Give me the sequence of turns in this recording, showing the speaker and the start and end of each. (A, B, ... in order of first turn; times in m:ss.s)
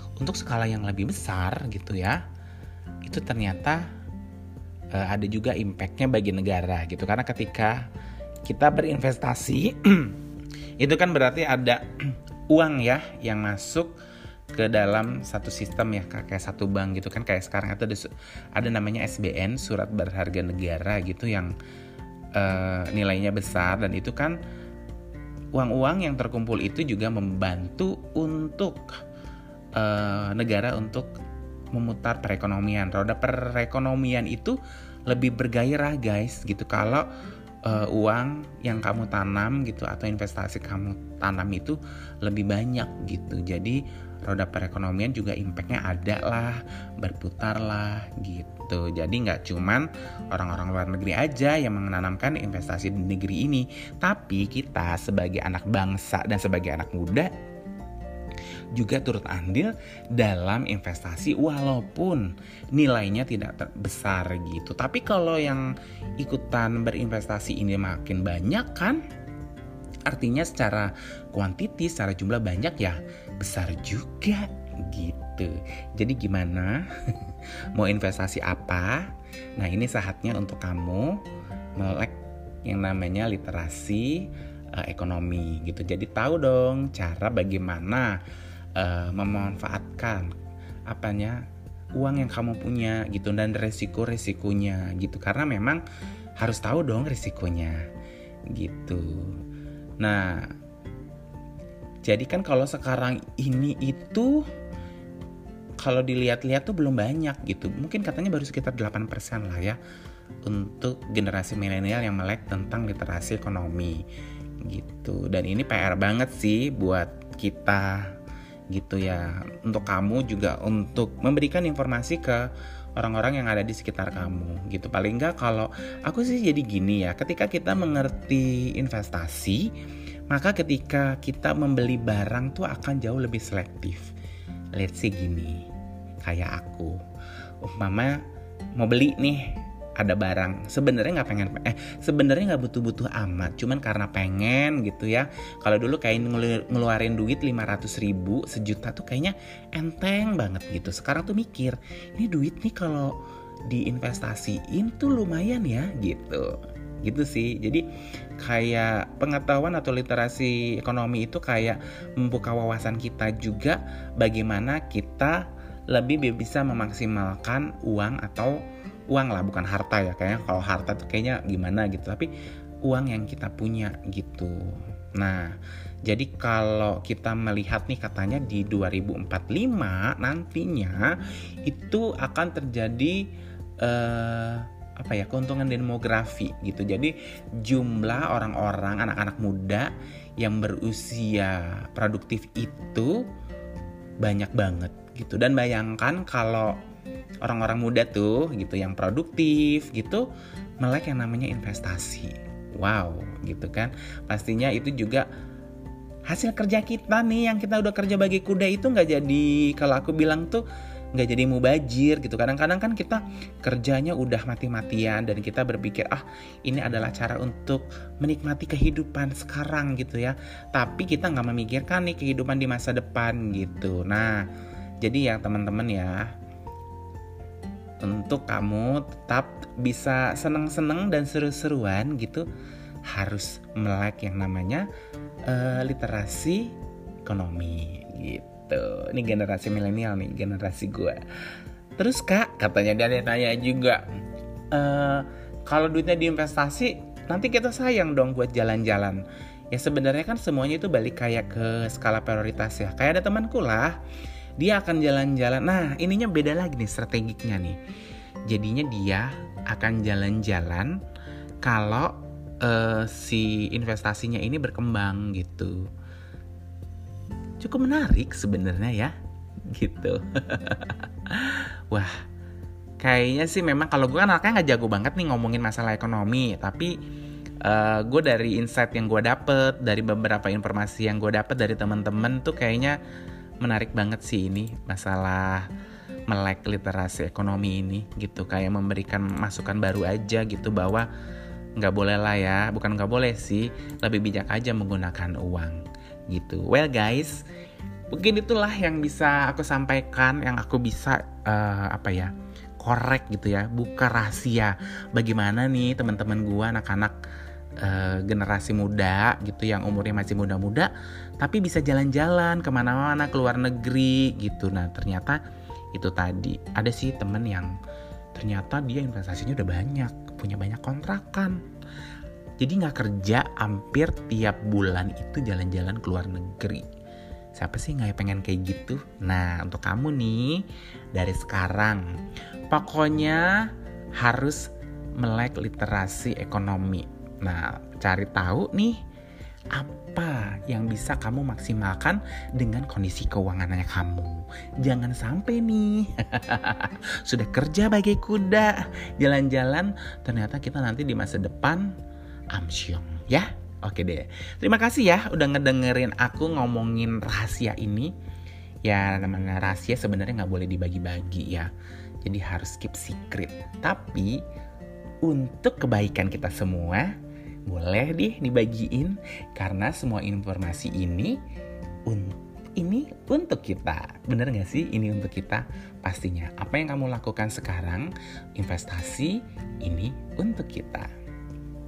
0:00.2-0:02.2 A
0:03.0-0:03.8 A
0:04.9-0:07.8 A
0:08.4-0:10.2 A
0:10.8-0:13.9 A
0:14.5-0:21.5 A
0:22.3-0:24.4 A
0:25.5-0:28.9 A
0:29.8-0:31.1 A
0:31.7-0:37.1 A
0:37.6-0:57.3 A
0:58.7-1:05.7 A
1:06.2-1:09.0 A
1:10.1-1:16.9 A
1:17.7-1:21.2 A
1:21.8-1:22.1 A
1:22.6-1:28.2 A
1:28.8-1:30.3 A
1:30.9-1:31.4 A
1:32.0-1:35.8 A
1:36.4-1:37.8 A
1:38.5-1:39.4 A
1:40.0-1:40.5 A
1:42.0-1:44.4 A
1:45.8-1:49.8 A
1:50.4-1:54.0 A
1:54.6-1:58.1 A
1:58.7-2:02.4 A
2:03.0-2:09.7 A
2:10.3-2:14.1 A
2:14.8-2:15.6 A
2:16.2-2:17.0 A
2:17.6-2:18.2 A
2:18.8-2:33.1 A
2:33.7-2:37.8 A
2:38.4-2:48.6 A
2:49.1-2:52.3 A
2:52.8-3:01.1 A
3:01.6-3:03.2 A
3:03.8-3:13.2 A
3:14.2-3:16.8 A
3:17.4-3:20.3 A
3:20.8-3:25.3 A
3:26.3-3:30.6 A
3:31.2-3:44.4 A
3:45.0-3:46.3 A
3:48.0-3:52.4 A
3:53.1-3:54.9 A
3:55.5-3:56.7 A
3:57.2-4:01.2 A
4:02.0-4:04.0 A
4:04.7-4:14.0 A
4:14.6-4:17.8 A
4:18.5-4:20.9 A
4:21.6-4:25.9 A
4:27.6-4:29.1 A
4:29.7-4:32.1 A
4:33.0-4:36.9 A
4:37.6-4:43.0 A
4:43.6-4:45.7 A
4:46.3-4:51.1 A
4:51.8-4:57.4 A
4:58.1-5:07.2 A
5:07.8-5:15.4 A
5:15.9-5:17.7 A
5:18.3-5:21.6 A
5:22.6-5:26.8 A
5:27.6-5:32.1 A
5:32.7-5:33.6 A
5:34.2-5:34.7 A
5:35.2-5:39.0 A
5:39.7-5:51.9 A
5:52.5-5:58.1 A
5:58.8-6:01.7 A
6:02.2-6:04.4 A
6:05.2-6:07.1 A
6:07.7-6:11.4 A
6:12.1-6:21.1 A